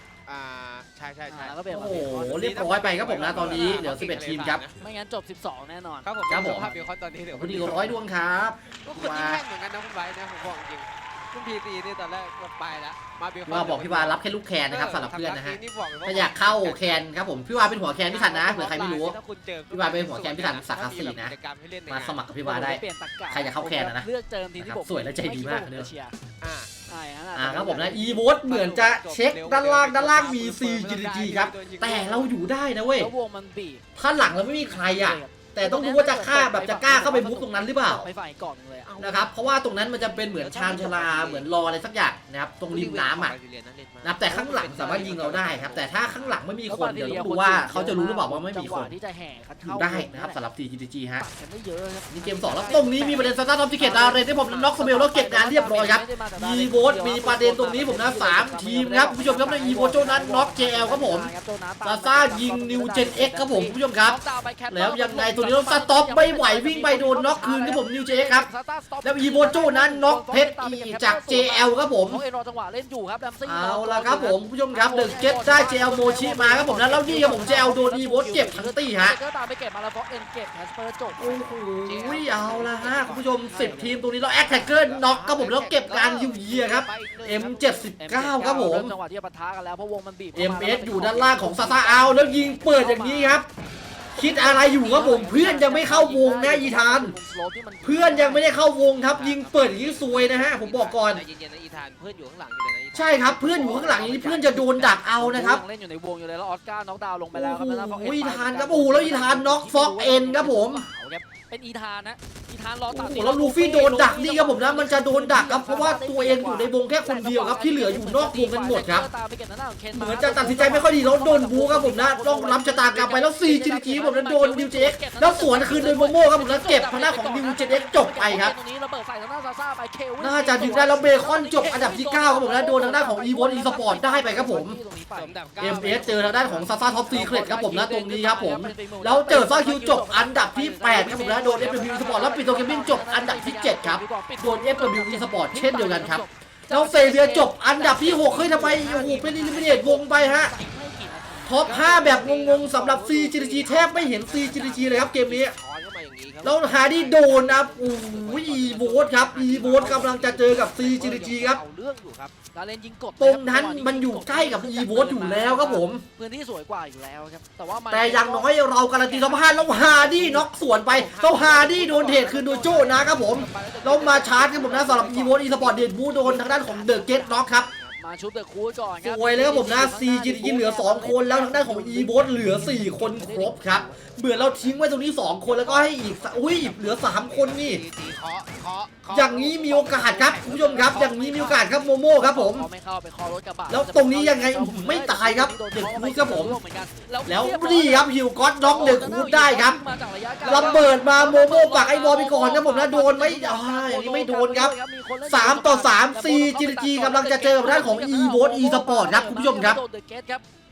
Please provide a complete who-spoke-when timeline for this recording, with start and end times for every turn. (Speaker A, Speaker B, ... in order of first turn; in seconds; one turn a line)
Speaker A: 0.3-1.6
Speaker B: 1.3-2.5
Speaker C: 1.7-4.6
Speaker A: 2.2-4.8
Speaker B: 3.4-3.8
Speaker B: 4.8-6.9
Speaker A: 6.0-8.0
Speaker C: 6.3-6.7
Speaker C: 7.3-9.4
Speaker A: 8.8-17.1
Speaker C: 13.5-19.2
Speaker A: 18.1-22.2
Speaker C: 19.7-21.3
Speaker C: 21.9-24.1
Speaker B: 22.4-26.2
Speaker C: 24.6-25.9
Speaker A: 26.4-26.7
Speaker B: 26.9-28.3
Speaker C: 27.4-33.1
Speaker A: 28.4-32.4
Speaker B: 33.0-33.9
Speaker C: 34.0-38.0
Speaker B: 34.7-38.9
Speaker A: 38.9-39.3
Speaker C: 39.0-43.3
Speaker A: 40.2-41.7
Speaker A: 42.6-46.4
Speaker C: 44.0-48.9
Speaker B: 46.7-50.4
Speaker C: 49.6-51.3
Speaker B: 51.2-81.6
Speaker C: 52.1-61.3
Speaker C: 61.8-64.2
Speaker C: 64.7-68.5
Speaker C: 69.0-72.2
Speaker C: 73.5-79.2
Speaker C: 81.2-89.0
Speaker A: 81.8-87.9
Speaker B: 83.4-84.0
Speaker B: 88.0-93.4
Speaker C: 90.3-93.5
Speaker B: 94.2-98.6
Speaker C: 94.2-97.2
Speaker C: 97.8-101.2
Speaker A: 99.1-103.3
Speaker C: 102.9-105.6
Speaker B: 103.2-151.8
Speaker C: 107.3-110.8
Speaker C: 112.9-119.1
Speaker C: 119.9-128.5
Speaker C: 130.2-134.8
Speaker A: 135.1-136.5
Speaker C: 135.6-150.5
Speaker C: 151.5-155.6
Speaker A: 151.6-162.3
Speaker B: 153.0-153.9
Speaker C: 156.4-161.6
Speaker B: 162.5-170.5
Speaker C: 163.2-166.0
Speaker C: 167.9-177.7
Speaker A: 170.9-175.6
Speaker B: 172.7-177.5
Speaker A: 177.1-178.0
Speaker B: 178.0-184.0
Speaker C: 179.0-187.8
Speaker A: 184.3-184.8
Speaker A: 185.5-191.9
Speaker C: 189.1-192.7
Speaker B: 191.2-198.1
Speaker C: 193.7-196.6
Speaker C: 197.3-199.8
Speaker B: 198.6-210.4
Speaker C: 200.4-204.8
Speaker C: 205.3-209.8